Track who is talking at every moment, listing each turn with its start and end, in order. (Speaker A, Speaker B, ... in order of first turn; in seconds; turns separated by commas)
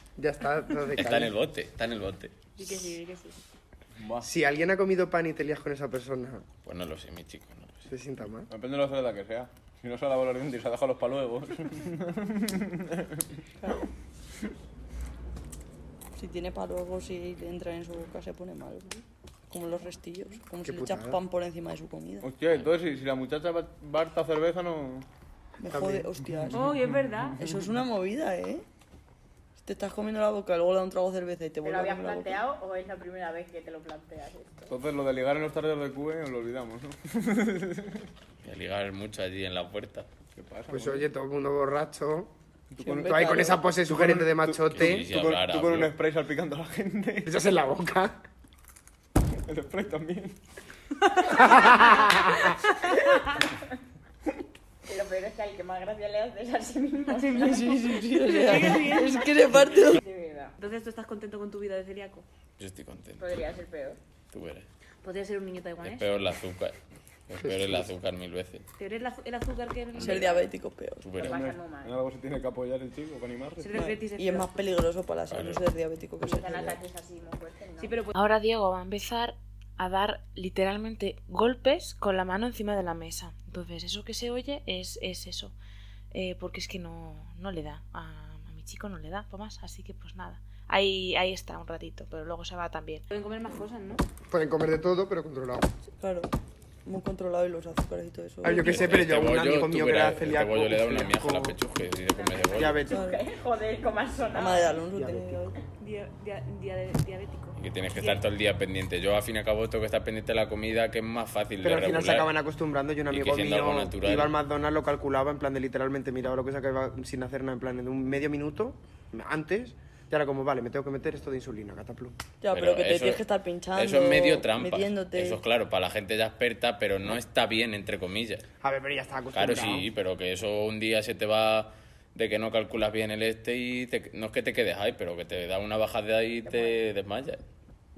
Speaker A: 0.2-1.3, Speaker B: 0.9-2.6, Speaker C: 2.6-3.3, Speaker D: 4.0-4.3, Speaker A: 4.2-6.5, Speaker B: 6.6-7.8, Speaker A: 7.9-8.5, Speaker D: 8.5-13.2, Speaker E: 16.2-18.9, Speaker E: 19.5-22.3, Speaker A: 20.6-21.2, Speaker D: 22.2-25.1, Speaker E: 25.6-26.7, Speaker A: 25.7-26.1, Speaker D: 26.4-27.6, Speaker C: 26.5-27.4, Speaker E: 27.4-28.6, Speaker E: 29.6-32.4, Speaker F: 31.6-34.7, Speaker D: 34.7-38.1, Speaker B: 38.4-40.1, Speaker D: 40.3-41.1, Speaker A: 40.7-42.3, Speaker D: 42.7-47.4, Speaker E: 42.8-43.5, Speaker A: 43.0-45.1, Speaker B: 44.7-46.0, Speaker A: 47.2-48.2, Speaker D: 49.5-50.4, Speaker A: 51.3-52.6, Speaker C: 51.6-51.9, Speaker C: 52.9-53.4, Speaker F: 54.9-58.6, Speaker C: 57.1-57.5, Speaker E: 57.4-60.0, Speaker C: 58.2-59.3, Speaker F: 59.6-60.5, Speaker C: 60.6-62.2, Speaker B: 62.6-63.5, Speaker F: 63.2-64.0, Speaker B: 64.3-64.7, Speaker C: 65.0-66.0, Speaker B: 65.8-66.8, Speaker B: 67.3-68.7, Speaker A: 67.4-67.9, Speaker C: 68.8-70.5, Speaker B: 69.9-70.3, Speaker E: 69.9-71.1, Speaker B: 71.0-71.4, Speaker D: 71.2-73.8, Speaker F: 71.2-72.0, Speaker C: 73.6-74.6, Speaker E: 73.7-76.8, Speaker B: 75.3-75.6, Speaker F: 76.2-78.0, Speaker C: 77.8-78.1, Speaker G: 78.1-85.5, Speaker G: 86.1-93.0, Speaker C: 93.1-94.0, Speaker A: 94.3-95.7, Speaker E: 96.0-96.3, Speaker E: 96.8-99.0, Speaker A: 98.4-101.6, Speaker B: 98.5-102.9, Speaker F: 101.9-104.8, Speaker A: 102.5-103.0, Speaker E: 102.9-103.2, Speaker E: 104.3-105.5, Speaker A: 104.9-105.5, Speaker C: 105.8-108.2, Speaker B: 107.6-112.3, Speaker A: 111.6-122.2, Speaker B: 113.1-114.3, Speaker E: 122.4-125.4, Speaker B: 122.5-128.4, Speaker A: 128.6-129.9, Speaker B: 129.3-137.4